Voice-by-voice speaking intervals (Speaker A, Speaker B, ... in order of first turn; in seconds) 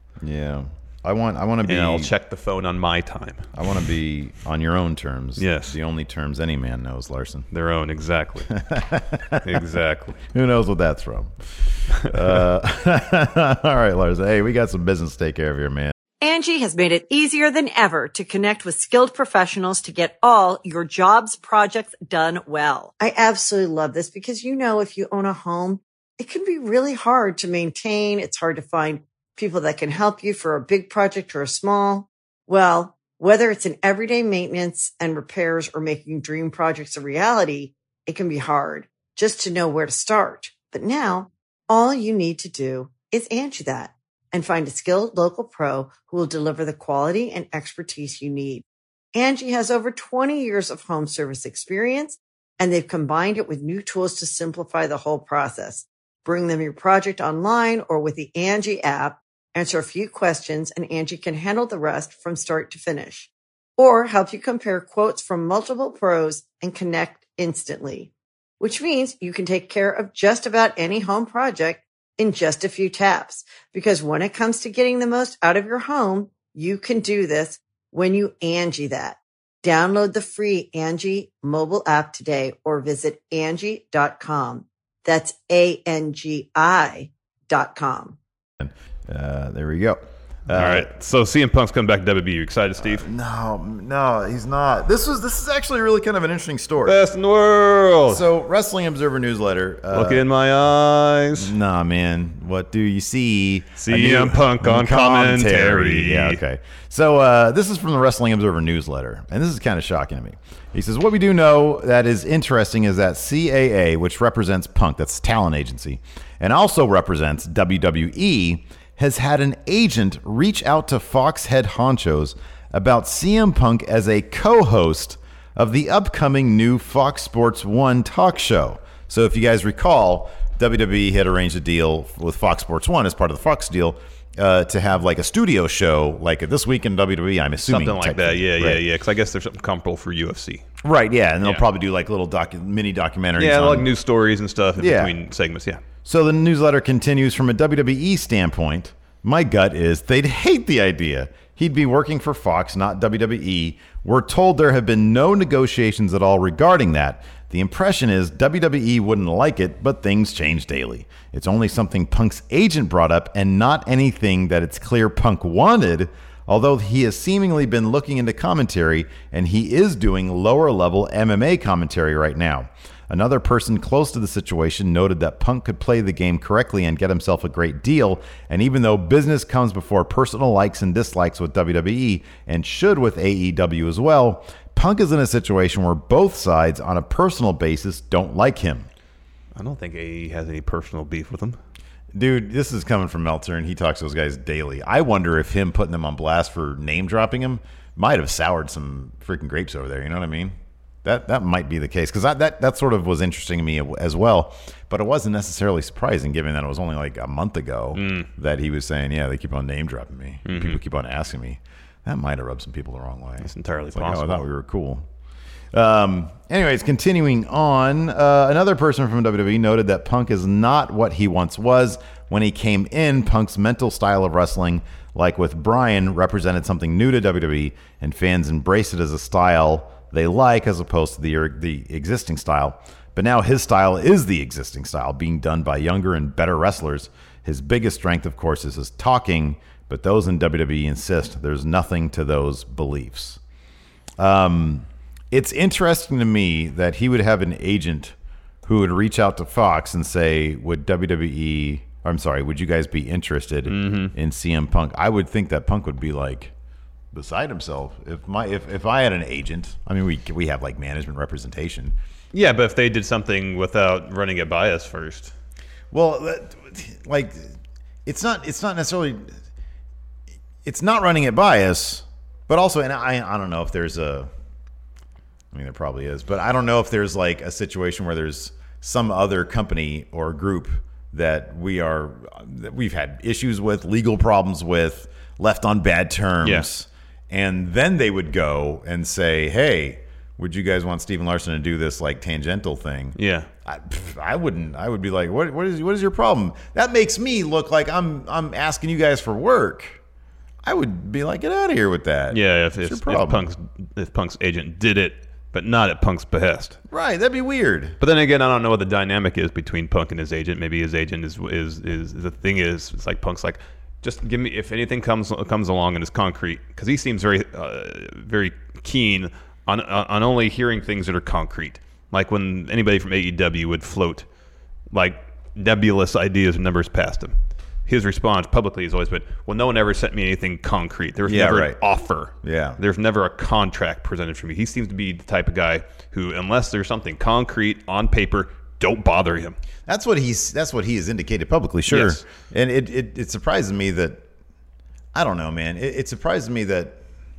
Speaker A: 0.2-2.1, 3.5-7.5, 8.5-9.6, 10.3-15.9, 88.6-90.9, 92.8-97.0, 98.1-100.2, 101.4-138.8, 140.8-143.9, 144.8-145.1, 146.0-188.9, 192.1-215.1, 215.7-243.4, 244.2-256.5, 257.1-261.9, 265.9-267.5, 268.1-269.3, 270.6-274.3, 275.5-300.0, 300.6-303.4, 306.9-308.0, 331.2-331.8, 332.4-332.8, 339.9-344.2, 345.1-347.0
Speaker B: 1.6-3.5, 5.4-5.8, 7.5-8.5, 9.4-10.2, 90.5-93.0, 96.8-98.3, 99.9-101.5, 103.8-106.4, 137.7-140.7, 143.4-145.8, 189.6-191.6, 207.9-208.3, 210.4-210.8, 213.4-214.4, 253.7-254.1, 262.3-265.3, 286.4-286.7, 293.2-293.5, 302.3-306.8, 308.0-324.2, 324.9-339.6, 341.9-342.2
Speaker C: 16.2-88.2